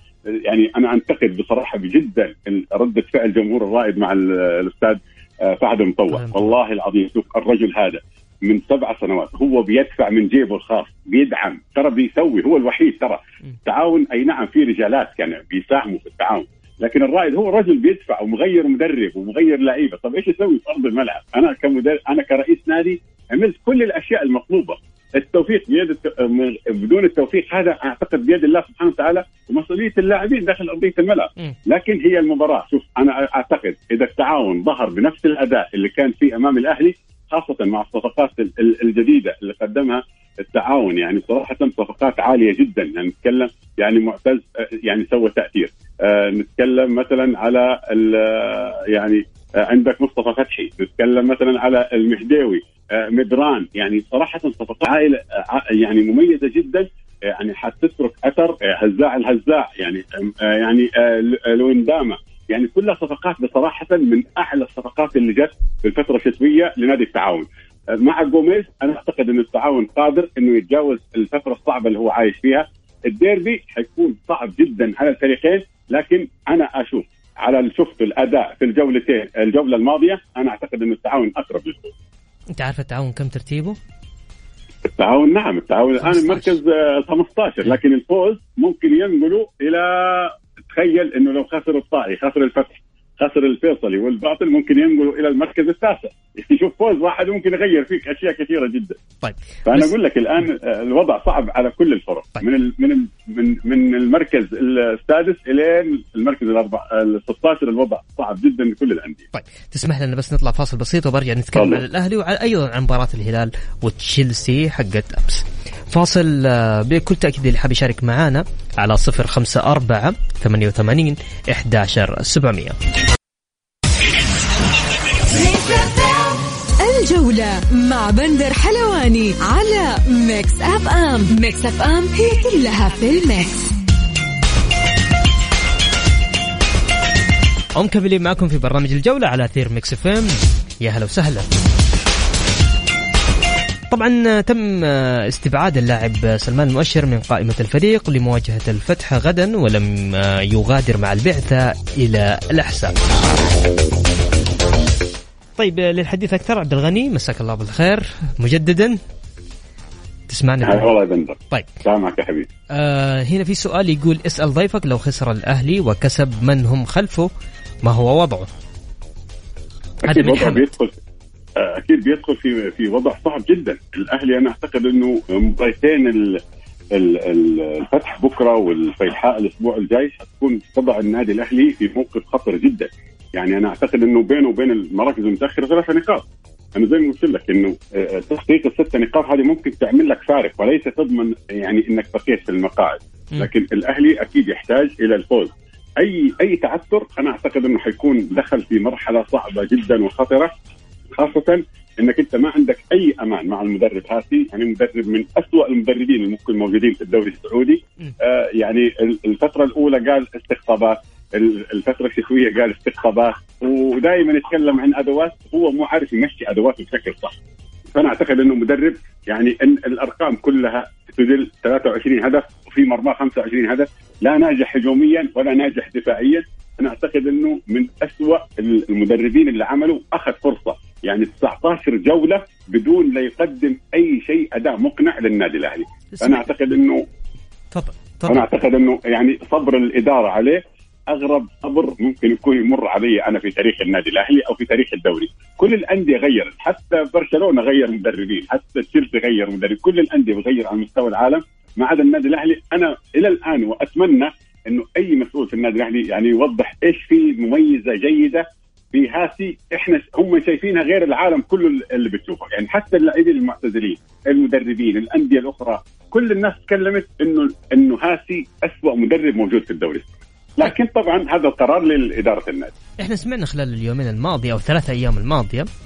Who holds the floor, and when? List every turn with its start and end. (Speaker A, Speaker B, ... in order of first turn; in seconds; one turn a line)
Speaker A: 0.5-81.9
Speaker B: 6.1-6.5
Speaker B: 82.5-83.8
Speaker A: 84.8-99.0
Speaker B: 86.0-86.5
Speaker B: 99.2-99.9
Speaker A: 99.7-109.2
Speaker B: 109.3-122.8
Speaker A: 111.6-111.8
Speaker C: 125.3-133.7
Speaker B: 137.8-141.5
Speaker B: 143.9-152.9
Speaker B: 155.6-159.0
Speaker B: 160.3-160.9
Speaker A: 160.6-162.5
Speaker B: 162.7-167.3
Speaker B: 167.8-168.5
Speaker B: 170.1-170.7
Speaker A: 170.1-170.9
Speaker A: 171.6-176.4
Speaker A: 176.9-186.2
Speaker A: 186.8-200.5
Speaker A: 201.1-217.3
Speaker A: 217.9-237.0
Speaker B: 236.1-236.5
Speaker B: 237.7-238.5
Speaker A: 238.3-272.8
Speaker B: 273.0-275.7